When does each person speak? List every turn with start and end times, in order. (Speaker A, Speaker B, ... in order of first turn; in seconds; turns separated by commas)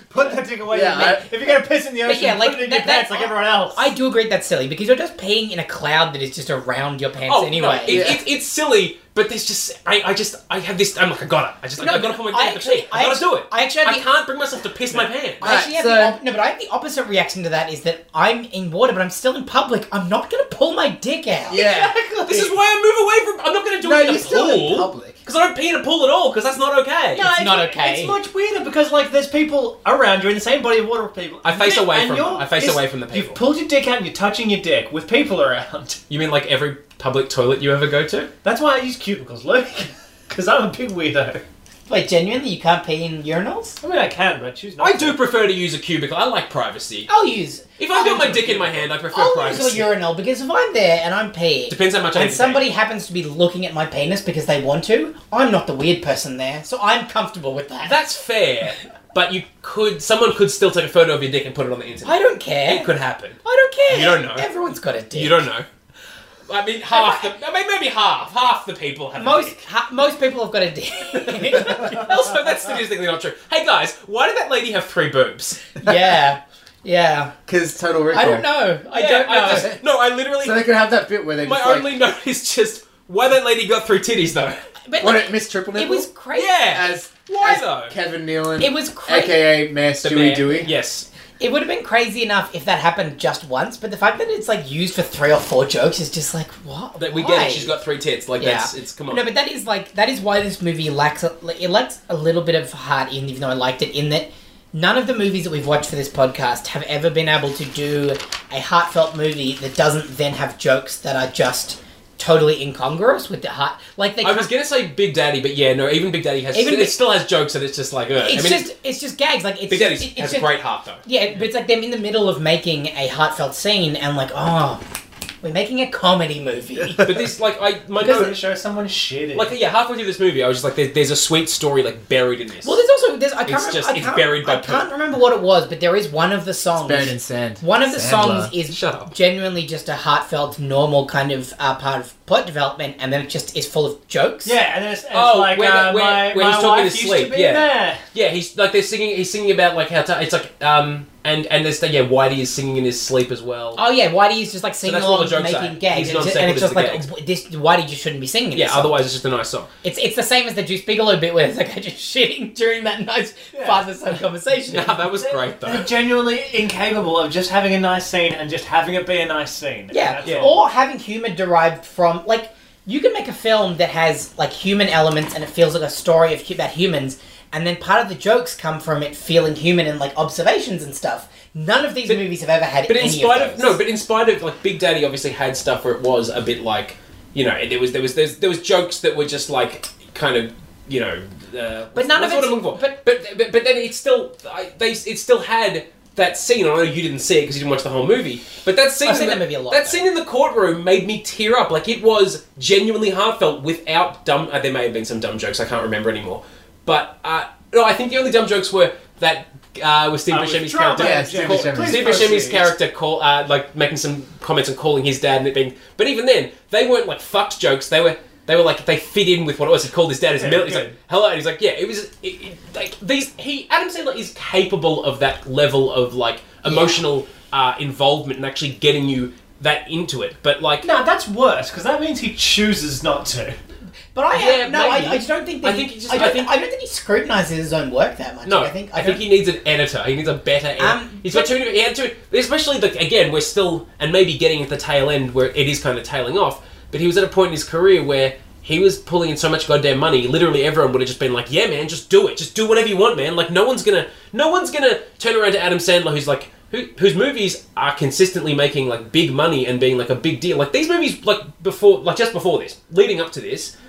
Speaker A: 0.1-3.9, Speaker B: 0.7-1.3, Speaker C: 2.0-8.1, Speaker D: 7.3-15.6, Speaker B: 7.9-8.2, Speaker C: 11.8-14.1, Speaker B: 15.4-16.2, Speaker C: 15.4-21.6, Speaker B: 21.5-21.9, Speaker A: 21.5-22.5, Speaker D: 22.2-27.3, Speaker B: 23.8-25.2, Speaker A: 27.1-36.0, Speaker C: 27.3-28.2, Speaker D: 31.4-33.4, Speaker D: 36.1-38.3, Speaker A: 38.4-41.4, Speaker C: 41.9-43.8, Speaker A: 43.8-45.2, Speaker D: 44.8-47.1, Speaker C: 47.1-58.0, Speaker D: 47.8-49.9, Speaker D: 51.7-52.6, Speaker D: 57.8-64.5, Speaker C: 62.0-62.9, Speaker C: 63.4-65.4, Speaker D: 65.1-65.7, Speaker D: 66.5-69.6, Speaker C: 66.9-67.3, Speaker C: 69.1-72.1, Speaker D: 71.5-75.6, Speaker C: 75.8-77.3, Speaker B: 77.5-78.5, Speaker C: 78.1-79.7, Speaker D: 78.9-80.7, Speaker B: 79.5-79.8, Speaker B: 80.4-81.9, Speaker D: 81.4-84.6, Speaker C: 84.9-86.6, Speaker B: 85.0-86.1, Speaker D: 86.3-88.0, Speaker B: 86.7-90.7, Speaker C: 88.6-89.5, Speaker D: 90.0-91.1, Speaker C: 91.4-97.7, Speaker D: 97.0-99.3, Speaker C: 98.4-114.5, Speaker D: 114.2-118.7, Speaker C: 116.5-117.0, Speaker C: 118.2-120.5, Speaker D: 119.7-121.0, Speaker C: 121.0-124.8, Speaker C: 125.4-127.1, Speaker D: 127.0-128.3, Speaker A: 128.0-129.5, Speaker D: 129.3-132.8, Speaker C: 132.6-144.5, Speaker D: 133.4-134.8, Speaker B: 136.8-138.5, Speaker D: 138.7-139.1, Speaker A: 144.4-148.0, Speaker D: 145.1-153.8, Speaker C: 153.8-159.0, Speaker D: 154.8-157.0, Speaker D: 158.5-159.7, Speaker C: 159.8-165.0, Speaker A: 163.5-163.8, Speaker D: 164.7-165.9, Speaker A: 165.2-170.6, Speaker C: 169.9-183.8, Speaker D: 170.2-170.5, Speaker D: 182.9-230.9, Speaker C: 191.9-193.0, Speaker C: 199.0-200.1, Speaker A: 210.3-212.7, Speaker B: 210.9-212.4, Speaker A: 220.4-220.9, Speaker C: 226.6-227.0, Speaker A: 230.8-233.6, Speaker C: 234.1-239.2, Speaker D: 234.3-236.5, Speaker D: 238.4-263.7, Speaker C: 240.8-241.5